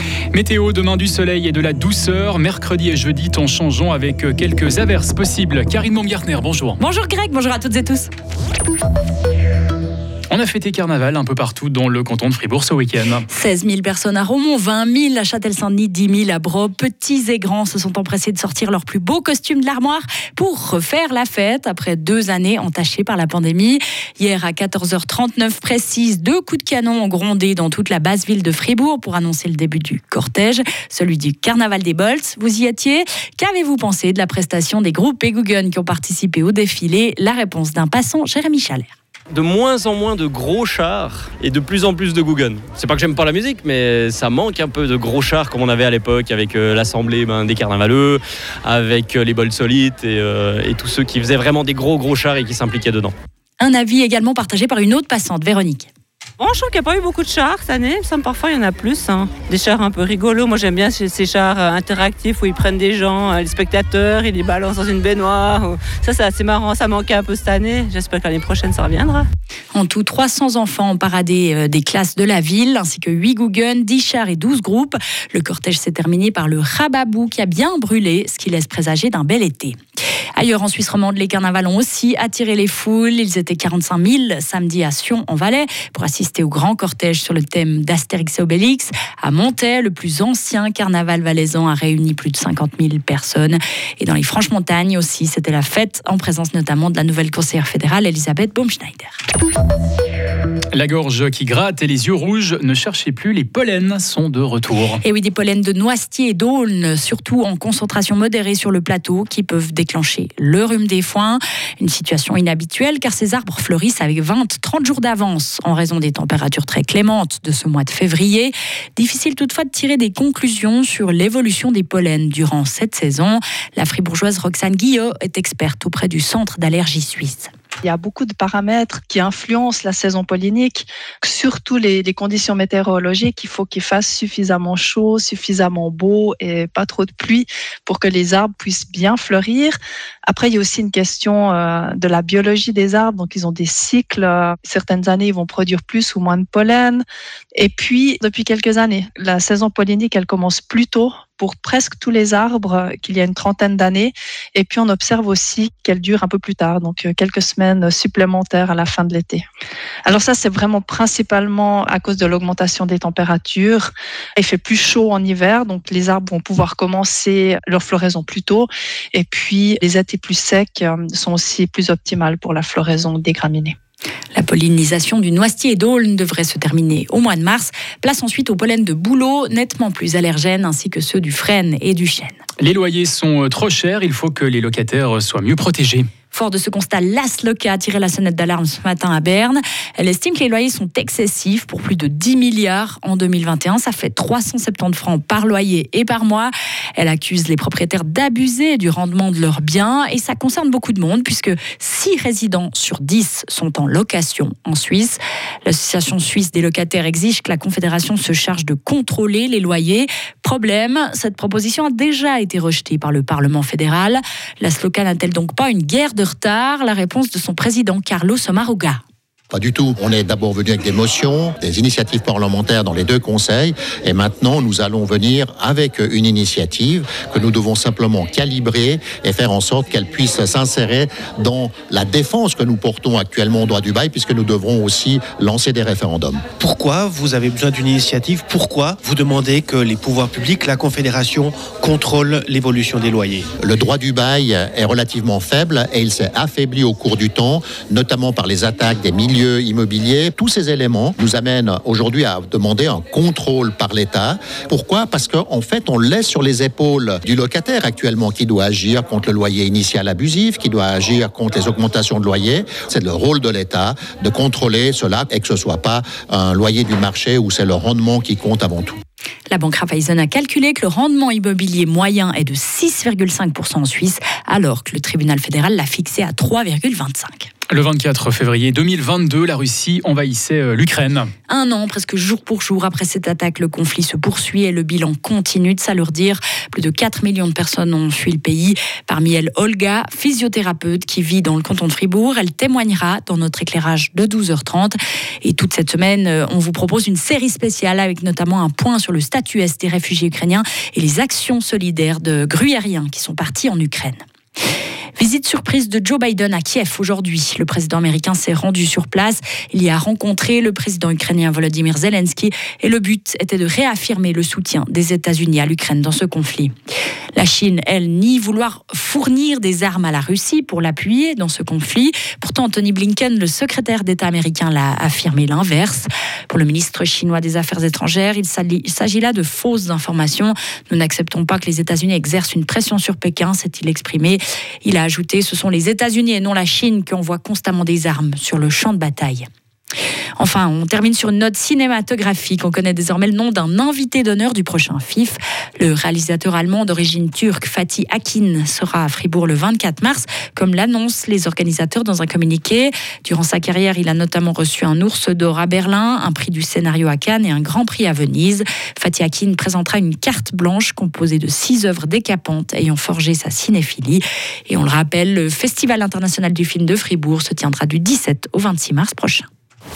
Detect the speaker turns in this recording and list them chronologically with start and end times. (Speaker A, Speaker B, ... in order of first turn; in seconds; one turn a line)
Speaker A: 0.3-6.8
Speaker B: 6.8-8.1
Speaker A: 10.3-13.2
Speaker B: 13.3-39.0
Speaker C: 39.3-53.1
Speaker B: 53.6-55.9
Speaker D: 56.4-69.3
Speaker B: 69.7-79.8
Speaker B: 80.3-99.2
Speaker A: 100.7-105.0
Speaker B: 105.0-127.5
Speaker E: 127.8-147.0
Speaker E: 147.5-159.4
Speaker E: 160.0-173.7
Speaker B: 174.3-182.4
Speaker A: 182.6-186.1
Speaker B: 186.3-219.0
Speaker F: 219.5-236.4
Speaker G: 236.6-243.5
Speaker F: 243.6-269.0
Speaker B: 269.5-277.5
Speaker A: 277.7-281.3
Speaker B: 281.5-304.2
Speaker B: 305.2-316.7
Speaker B: 317.3-339.4
Speaker B: 340.4-369.5